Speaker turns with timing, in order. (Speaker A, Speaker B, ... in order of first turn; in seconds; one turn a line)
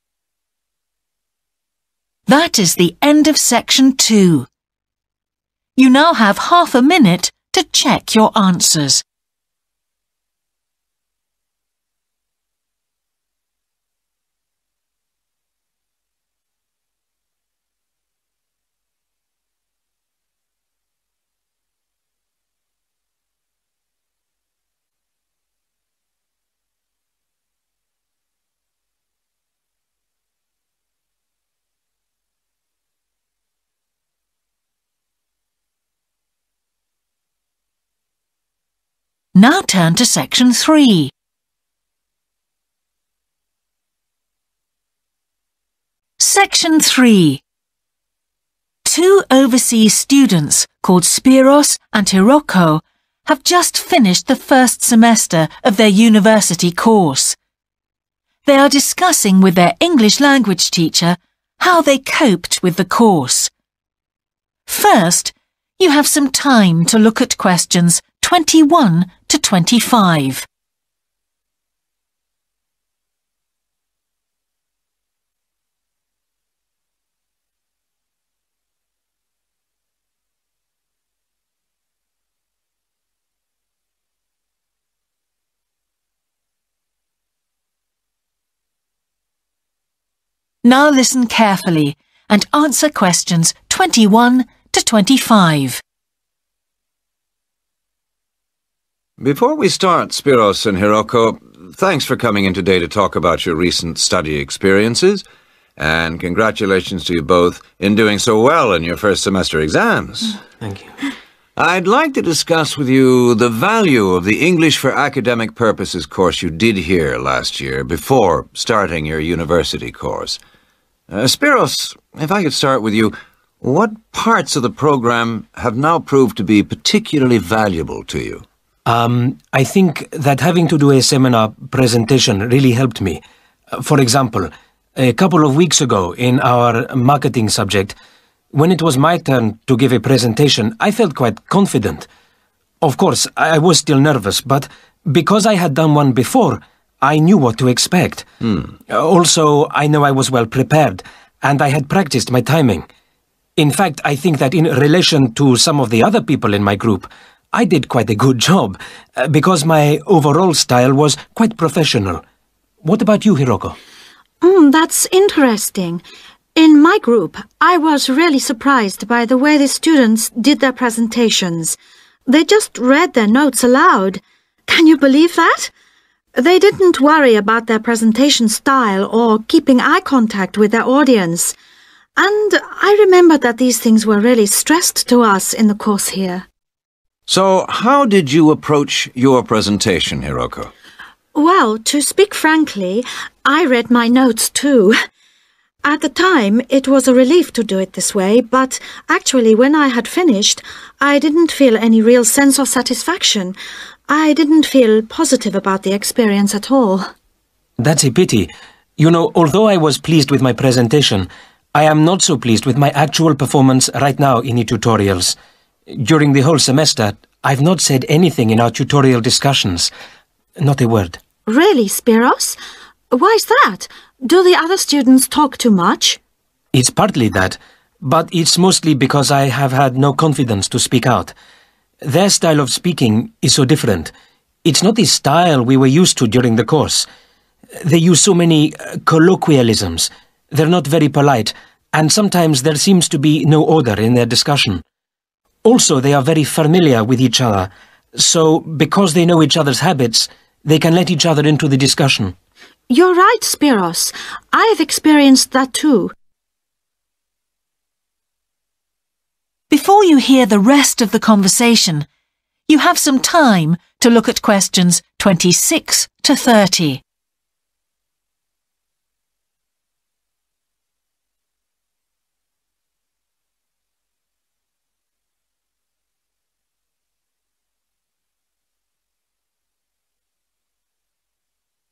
Speaker A: 2.3-4.5
Speaker A: 5.8-9.0
Speaker A: 39.4-41.1
Speaker A: 46.2-47.4
Speaker A: 48.9-57.4
Speaker A: 58.5-63.5
Speaker A: 64.7-70.5
Speaker A: 90.6-95.8
Speaker B: 99.2-105.2
Speaker B: 105.8-110.4
Speaker C: 110.6-110.9
Speaker B: 111.6-120.4
Speaker B: 121.1-128.4
Speaker C: 128.9-133.2
Speaker C: 133.7-138.0
Speaker C: 138.5-142.1
Speaker C: 142.8-148.3
Speaker C: 148.8-152.9
Speaker C: 153.6-162.2
Speaker C: 162.8-163.8
Speaker D: 164.4-166.0
Speaker D: 166.6-171.8
Speaker D: 172.3-175.7
Speaker D: 176.3-181.6
Speaker D: 182.2-186.4
Speaker B: 187.3-190.7
Speaker D: 191.3-195.0
Speaker D: 195.8-203.6
Speaker D: 204.1-207.1
Speaker C: 207.8-215.3
Speaker C: 215.9-219.9
Speaker C: 220.6-221.2
Speaker D: 221.5-222.6
Speaker D: 223.1-226.2
Speaker C: 226.7-231.3
Speaker C: 232.0-234.1
Speaker C: 234.6-237.1
Speaker C: 237.8-244.8
Speaker C: 245.6-252.3
Speaker D: 252.9-256.1
Speaker A: 259.7-262.1
Speaker A: 262.7-267.0